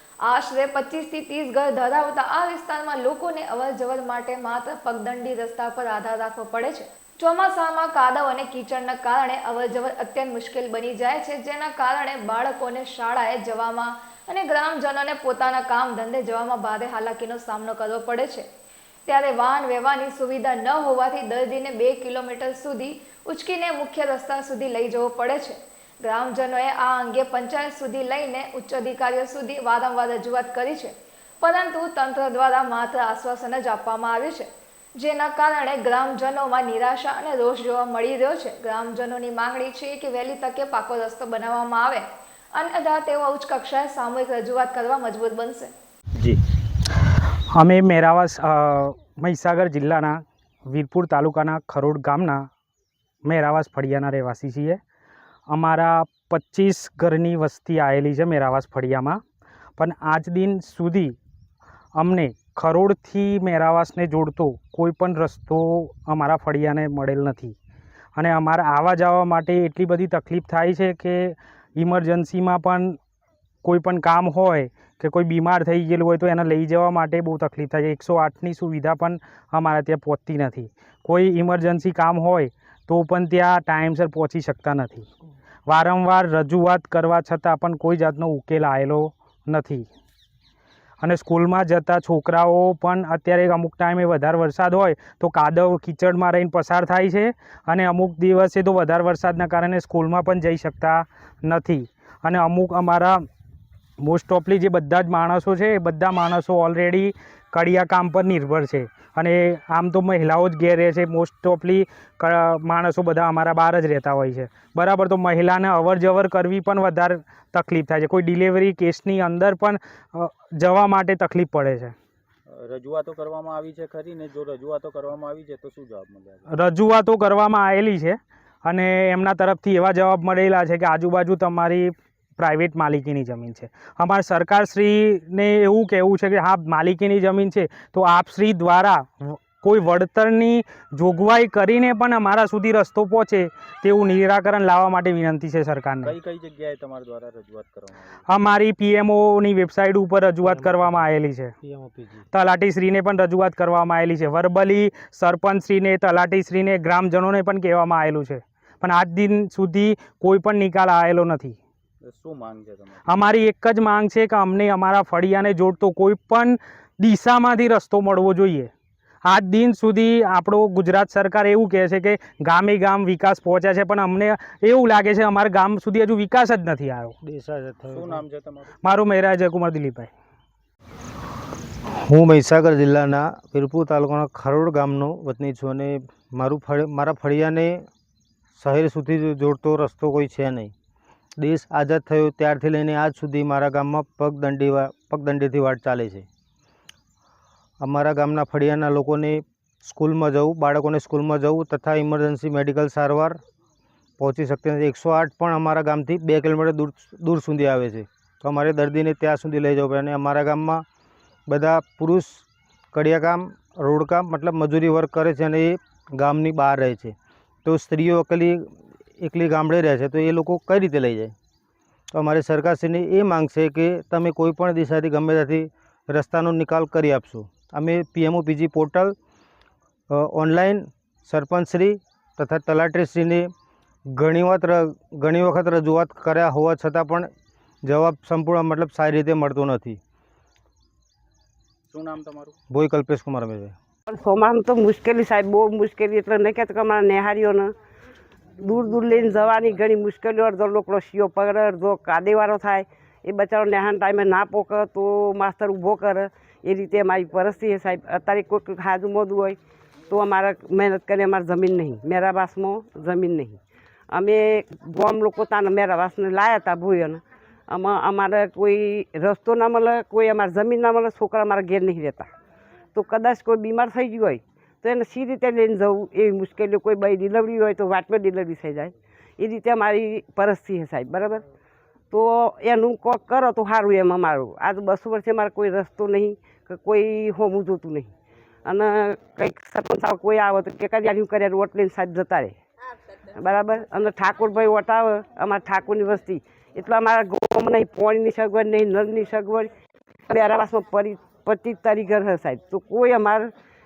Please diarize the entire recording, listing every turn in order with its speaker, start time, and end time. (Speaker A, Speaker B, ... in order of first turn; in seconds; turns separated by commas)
Speaker A: 0.2-18.5, Speaker A: 19.1-45.7, Speaker B: 47.5-52.5, Speaker B: 53.2-54.8, Speaker B: 55.5-59.2, Speaker B: 59.8-61.2, Speaker B: 62.0-67.6, Speaker B: 68.2-73.0, Speaker B: 73.6-85.1, Speaker B: 85.7-89.9, Speaker B: 91.0-103.2, Speaker B: 104.0-122.0, Speaker C: 122.5-126.5, Speaker B: 126.5-146.2, Speaker C: 146.0-148.2, Speaker B: 148.3-151.5, Speaker D: 150.6-150.9, Speaker D: 151.6-152.1, Speaker B: 152.3-161.6, Speaker C: 162.1-163.2, Speaker B: 163.1-168.7, Speaker B: 169.2-177.2, Speaker D: 177.2-178.2, Speaker C: 177.9-178.8, Speaker B: 178.8-180.1, Speaker D: 182.0-187.9, Speaker D: 188.6-190.7, Speaker D: 191.4-196.3, Speaker D: 197.8-203.4, Speaker D: 204.2-210.8, Speaker D: 211.5-221.3, Speaker D: 222.1-229.2, Speaker D: 230.1-233.5, Speaker D: 234.1-237.3, Speaker D: 237.8-240.0, Speaker C: 241.9-242.6, Speaker D: 242.7-243.8, Speaker E: 244.1-247.7, Speaker E: 248.6-259.6, Speaker E: 260.1-263.6, Speaker E: 264.1-272.3, Speaker E: 272.9-281.4, Speaker E: 282.1-288.1, Speaker E: 288.6-292.6, Speaker E: 293.3-299.7, Speaker E: 300.3-303.5